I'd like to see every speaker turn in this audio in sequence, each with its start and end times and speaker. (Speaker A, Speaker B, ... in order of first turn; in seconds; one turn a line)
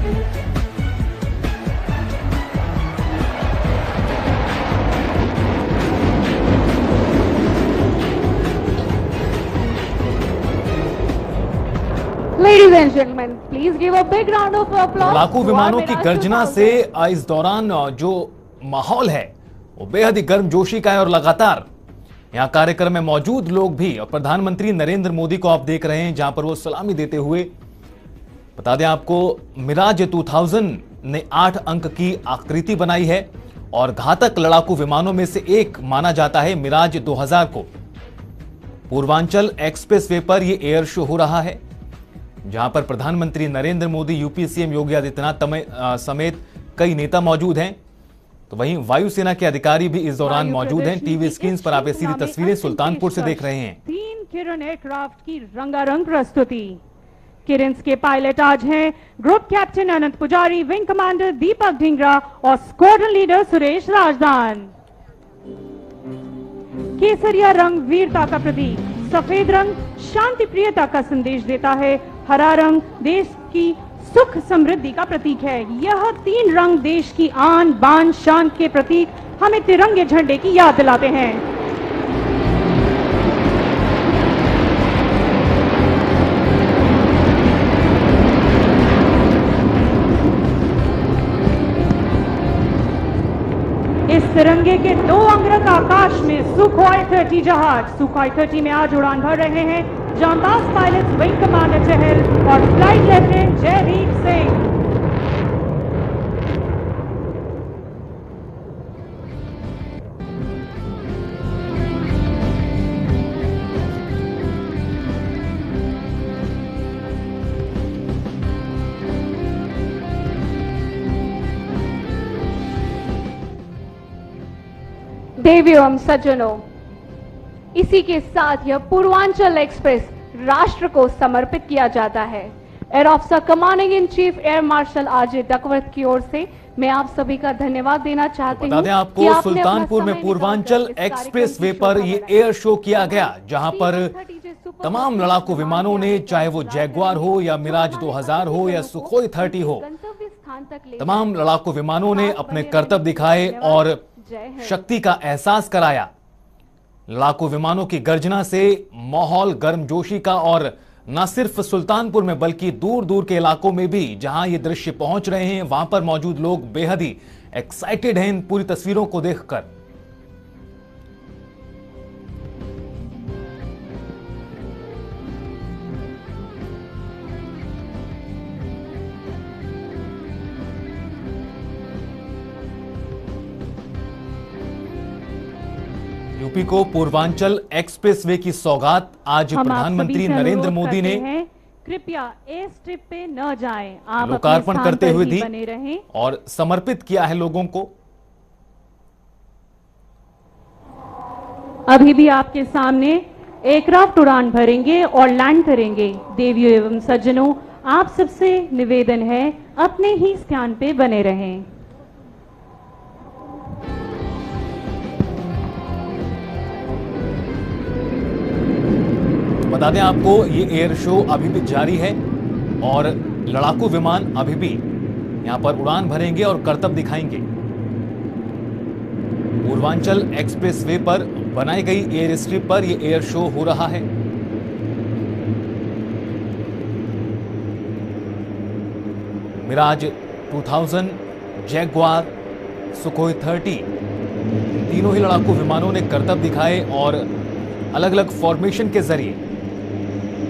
Speaker A: 12.4-16.8
Speaker B: 15.0-21.7
Speaker B: 22.3-27.5
Speaker B: 28.6-37.7
Speaker B: 38.9-41.6
Speaker B: 42.5-47.8
Speaker B: 48.5-53.8
Speaker C: 50.2-56.8
Speaker C: 57.5-64.7
Speaker C: 67.0-81.5
Speaker C: 94.1-104.7
Speaker A: 125.4-126.7
Speaker A: 127.8-151.4
Speaker B: 138.5-144.1
Speaker B: 144.8-149.9
Speaker B: 151.0-154.0
Speaker A: 152.1-154.8
Speaker B: 154.6-156.1
Speaker B: 157.1-169.7
Speaker B: 186.4-191.2
Speaker C: 189.6-196.1
Speaker B: 194.2-195.5
Speaker B: 196.1-197.9
Speaker C: 201.9-211.7
Speaker B: 219.7-222.2
Speaker B: 222.8-224.8
Speaker B: 225.4-227.5
Speaker B: 229.6-234.1
Speaker B: 239.6-242.3
Speaker B: 242.9-243.9
Speaker B: 244.7-247.3
Speaker B: 247.9-249.4